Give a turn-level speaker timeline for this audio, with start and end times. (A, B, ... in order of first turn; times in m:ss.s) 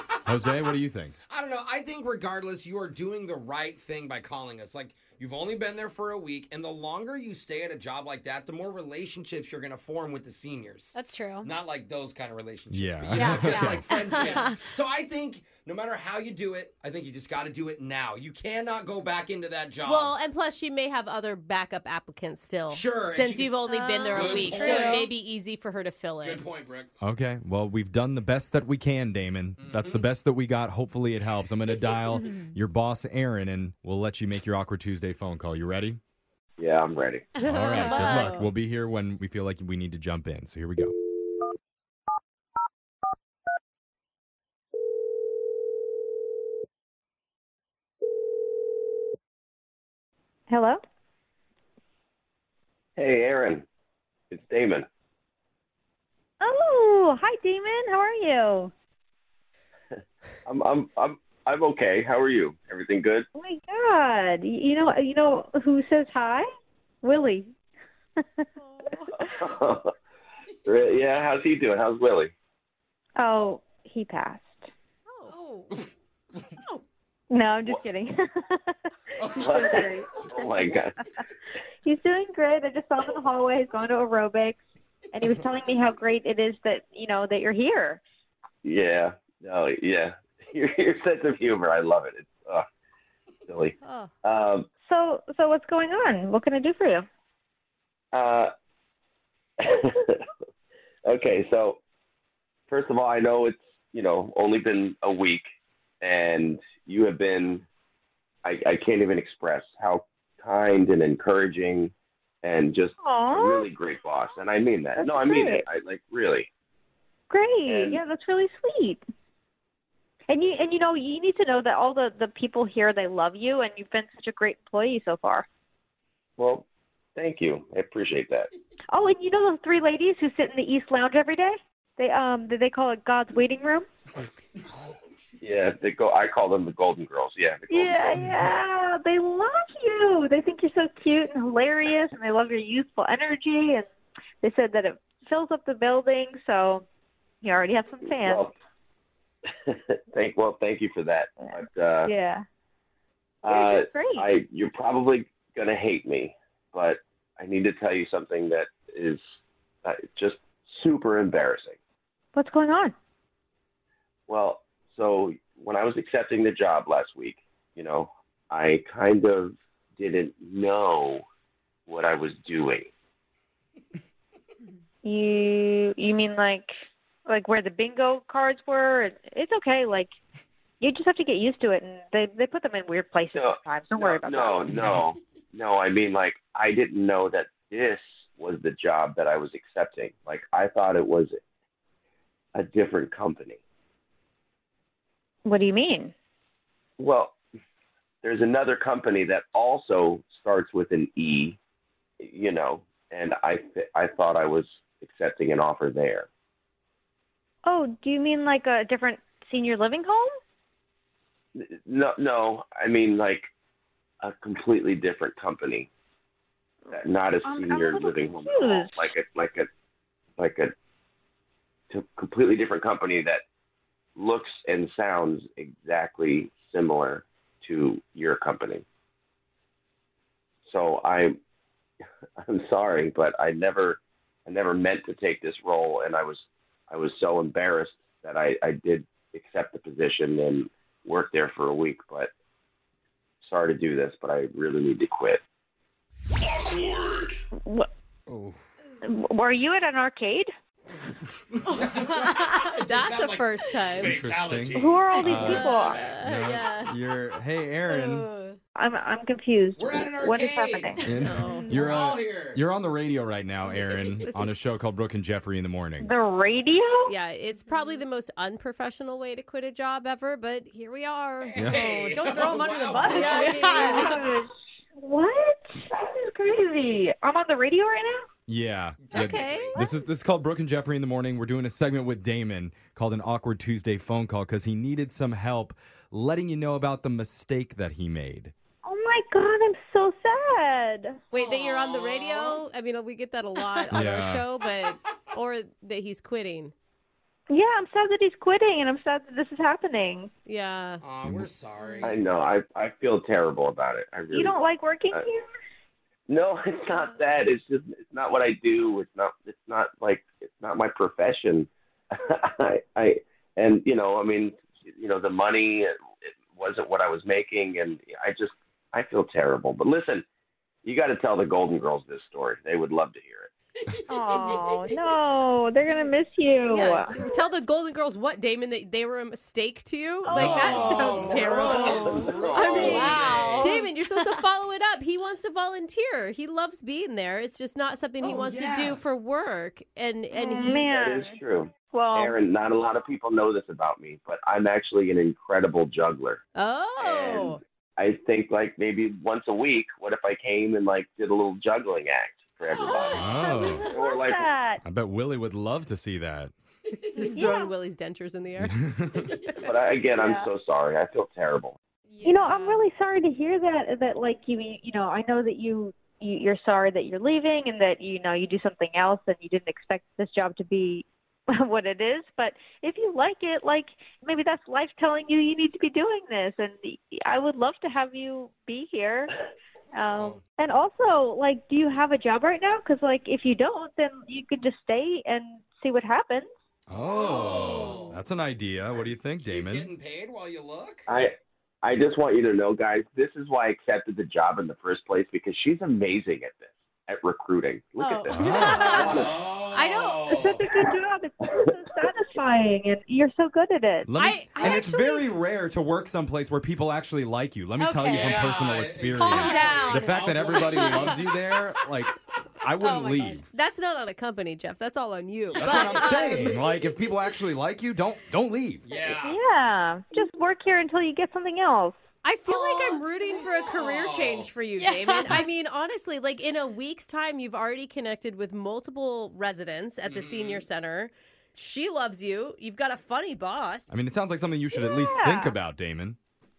0:00.3-0:01.2 A
0:01.3-0:20.2 B
0:11.0-0:11.5 C
0:12.7-0:14.3 A
0:13.1-0:14.6 C
0:19.8-0:26.4 D
0:22.7-0:25.1 B
0:23.7-0:25.1 C
0:26.2-0:26.9 B
0:27.0-0:36.0 A
0:29.6-0:30.0 B
0:36.6-0:37.3 E
0:37.4-0:38.5 D
0:37.4-0:41.0 A
0:37.6-0:38.4 C
0:50.5-0:50.8 F
0:53.0-0:53.6 E
0:54.3-0:54.9 E
0:56.4-0:58.7 F
0:59.9-1:03.3 E
1:03.4-1:06.5 F
1:07.0-1:07.5 F
1:08.2-1:08.5 F
1:09.4-1:09.9 E
1:10.6-1:12.3 E
1:13.2-1:14.7 F
1:15.1-1:15.4 D
1:15.3-1:15.8 C
1:17.3-1:21.0 F
1:19.4-1:20.9 E
1:21.8-1:24.6 F
1:25.1-1:28.0 F
1:28.6-1:32.7 E
1:33.5-1:34.7 E
1:33.8-1:34.1 D
1:34.8-1:37.0 F
1:38.1-1:38.5 E
1:39.6-1:40.2 E
1:41.1-1:41.8 E
1:42.7-1:45.4 E
1:46.0-1:47.6 E
1:48.4-1:51.9 E
1:52.4-1:56.5 E
1:53.0-1:53.7 F
1:55.0-1:55.6 F
1:57.3-1:59.0 F
1:57.7-1:58.0 E
2:00.3-2:05.4 F
2:06.4-2:06.6 E
2:07.2-2:08.5 E
2:08.9-2:13.9 F
2:14.7-2:15.0 B
2:15.4-2:18.3 E
2:17.7-2:23.9 F
2:24.4-2:26.8 F
2:27.4-2:28.5 F
2:28.2-2:28.6 E
2:29.7-2:32.1 E
2:31.4-2:32.4 F
2:33.4-2:34.3 F
2:33.4-2:39.2 E
2:39.8-2:41.8 E
2:42.4-2:42.9 F
2:44.3-2:51.2 E
2:51.9-2:52.9 E
2:55.0-2:56.7 F
2:57.3-3:00.1 F
3:00.8-3:04.8 F
3:03.3-3:11.4 E
3:12.6-3:13.6 E
3:15.5-3:16.1 F
3:17.0-3:17.4 E
3:18.2-3:21.6 E
3:22.2-3:26.3 E
3:27.6-3:30.3 F
3:31.6-3:33.5 E
3:34.2-3:35.9 E
3:36.9-3:39.0 F
3:36.9-3:39.7 E
3:40.4-3:40.7 E
3:41.9-3:43.4 E
3:44.2-3:48.8 E
3:50.7-3:51.4 E
3:52.4-4:02.3 E
4:03.4-4:05.4 E
4:08.3-4:08.6 A
4:09.0-4:10.5 F
4:11.6-4:16.0 B
4:11.7-4:12.7 C
4:12.8-4:14.2 D
4:14.0-4:18.3 A
4:14.7-4:16.1 F
4:15.3-4:16.9 D
4:17.9-4:18.6 C
4:18.8-4:21.0 F
4:19.8-4:21.0 B
4:21.0-4:21.8 C
4:21.0-4:26.1 A
4:21.2-4:21.7 D
4:21.7-4:22.6 B
4:24.2-4:24.8 D
4:26.0-4:27.1 F
4:27.1-4:31.8 D
4:27.6-4:28.0 C
4:31.4-4:33.9 B
4:31.6-4:31.9 A
4:31.7-4:34.2 C
4:33.0-4:34.2 D
4:33.2-4:38.2 F
4:38.5-4:48.5 A
4:39.0-4:39.7 B
4:39.1-4:39.8 D
4:48.8-4:51.2 F
4:51.3-4:56.7 D
4:51.4-4:52.6 B
4:53.9-4:54.5 A
4:57.5-5:00.3 F
5:00.5-5:01.0 D
5:01.0-5:02.3 B
5:02.0-5:04.6 E
5:04.3-5:05.5 F
5:06.3-5:20.2 E
5:20.8-5:23.5 E
5:23.9-5:25.0 B
5:24.1-5:27.2 F
5:26.7-5:40.9 D
5:30.3-5:33.7 B
5:30.5-5:32.9 F
5:32.1-5:33.2 E
5:32.9-5:34.3 C
5:38.2-5:39.0 B
5:40.3-5:42.4 F
5:40.8-5:46.4 E
5:46.6-5:47.6 D
5:47.0-5:54.5 E
5:52.9-5:53.3 C
5:53.0-5:54.8 F
5:53.1-5:53.9 A
5:54.8-5:56.5 A
5:57.1-5:59.6 D
5:57.2-5:57.7 F
5:58.6-5:59.3 A
5:59.6-6:01.8 E
6:00.1-6:00.5 F
6:02.1-6:02.8 C
6:02.2-6:19.3 F
6:19.9-6:26.5 F
6:20.1-6:20.4 B
6:26.9-6:29.9 A
6:27.0-6:28.2 B
6:27.3-6:28.1 F
6:28.9-6:31.1 B
6:31.1-6:39.4 E
6:38.0-6:39.2 D
6:38.3-6:39.2 A
6:38.7-6:44.1 F
6:38.9-6:40.6 B
6:44.1-6:53.5 A
6:44.2-6:45.0 D
6:47.8-6:51.3 C
6:48.1-6:51.3 B
6:52.8-6:53.4 C
6:53.5-6:56.5 D
6:55.6-6:59.1 A
6:55.8-6:56.5 C
6:58.8-6:59.4 B
6:59.2-7:02.0 F
7:02.2-7:13.9 D
7:02.5-7:03.7 C
7:03.7-7:04.5 B
7:04.8-7:05.4 C
7:10.0-7:10.7 B
7:13.9-7:16.2 A
7:14.7-7:15.5 F